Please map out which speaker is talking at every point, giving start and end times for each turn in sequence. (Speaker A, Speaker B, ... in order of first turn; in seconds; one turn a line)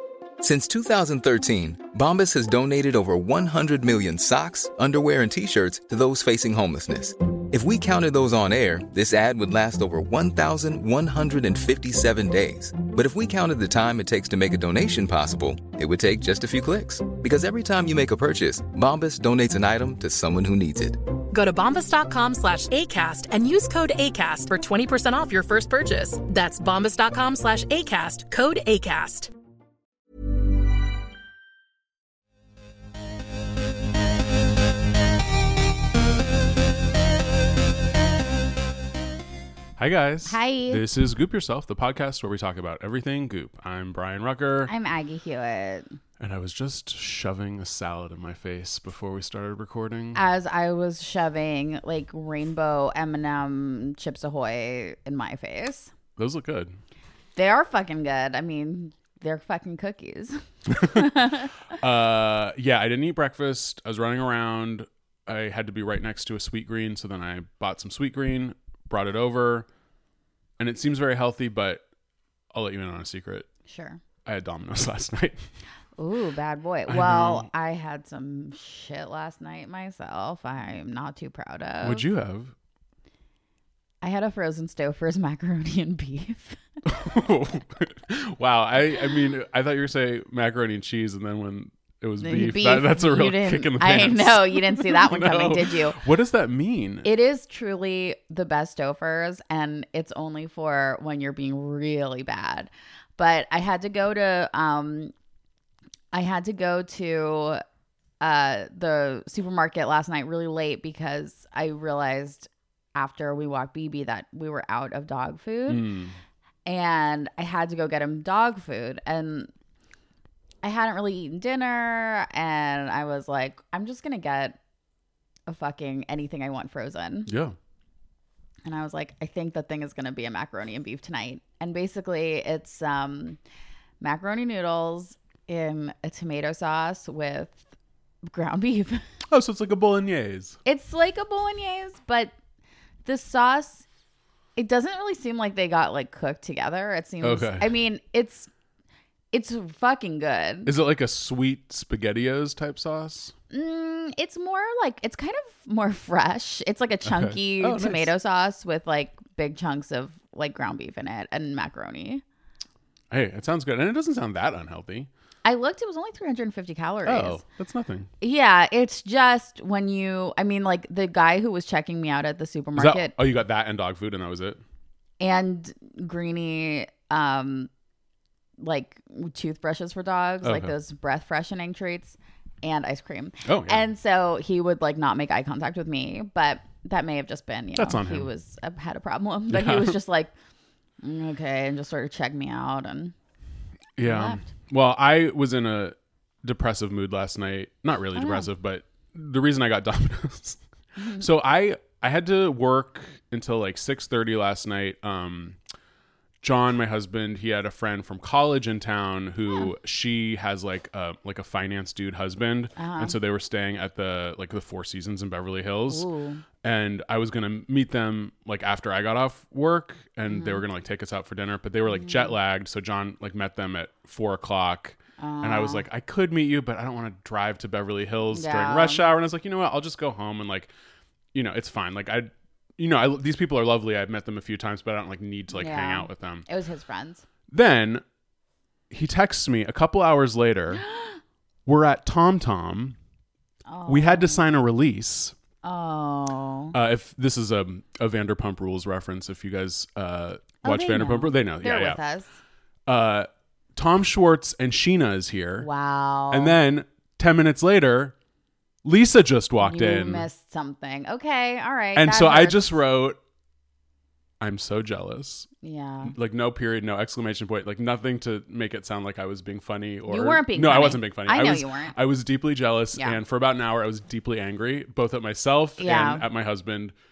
Speaker A: 0.4-21.0
Speaker B: 21.3-29.3
Speaker C: 39.8-44.7
Speaker D: 40.3-40.8
Speaker D: 44.7-46.0
Speaker C: 46.2-50.2
Speaker D: 50.1-55.9
Speaker C: 56.2-56.7
Speaker D: 57.4-61.5
Speaker C: 60.7-61.1
Speaker C: 61.8-69.7
Speaker C: 70.6-71.8
Speaker C: 72.5-73.5
Speaker D: 73.7-74.0
Speaker C: 74.2-75.4
Speaker D: 76.0-82.0
Speaker C: 76.9-77.5
Speaker C: 81.8-82.5
Speaker D: 84.0-86.6
Speaker C: 86.8-97.1
Speaker D: 92.2-96.0
Speaker D: 97.0-105.1
Speaker D: 106.1-107.6
Speaker D: 108.2-115.8
Speaker C: 115.7-116.2
Speaker D: 116.7-119.5
Speaker D: 120.6-124.6
Speaker D: 125.5-127.3
Speaker C: 127.3-127.5
Speaker D: 128.6-133.4
Speaker D: 134.0-137.6
Speaker D: 138.2-139.1
Speaker C: 139.3-140.6
Speaker D: 140.7-142.3
Speaker D: 143.0-143.8
Speaker D: 144.6-148.5
Speaker C: 147.2-147.7
Speaker D: 149.3-150.7
Speaker C: 150.7-153.3
Speaker D: 153.5-162.2
Speaker C: 157.1-158.1
Speaker C: 163.1-165.1
Speaker D: 165.4-167.4
Speaker C: 167.1-168.1
Speaker D: 168.2-173.1
Speaker C: 172.8-174.6
Speaker D: 175.2-177.7
Speaker D: 178.6-190.3
Speaker C: 180.4-180.7
Speaker C: 183.4-183.9
Speaker C: 187.8-188.3
Speaker C: 189.5-190.0
Speaker D: 191.0-193.1
Speaker C: 194.0-200.6
Speaker D: 194.0-194.4
Speaker D: 198.1-198.5
Speaker D: 201.0-201.2
Speaker C: 201.1-205.6
Speaker C: 206.4-216.1
Speaker D: 212.8-213.2
Speaker D: 215.9-216.4
Speaker C: 216.6-230.7
Speaker D: 220.3-220.6
Speaker D: 221.9-222.3
Speaker D: 225.2-225.8
Speaker D: 228.3-229.0
Speaker C: 231.3-236.5
Speaker D: 235.5-237.2
Speaker C: 237.5-238.0
Speaker C: 238.9-240.8
Speaker D: 240.7-241.2
Speaker C: 241.7-242.9
Speaker D: 243.7-244.4
Speaker C: 243.9-245.3
Speaker D: 245.6-246.7
Speaker C: 246.7-252.0
Speaker D: 250.6-252.3
Speaker C: 252.9-255.7
Speaker D: 255.6-256.6
Speaker C: 256.3-258.1
Speaker C: 258.8-260.3
Speaker D: 259.6-262.8
Speaker C: 261.9-263.2
Speaker C: 264.4-265.5
Speaker D: 265.6-266.1
Speaker C: 266.1-276.9
Speaker D: 270.1-271.9
Speaker D: 275.8-276.2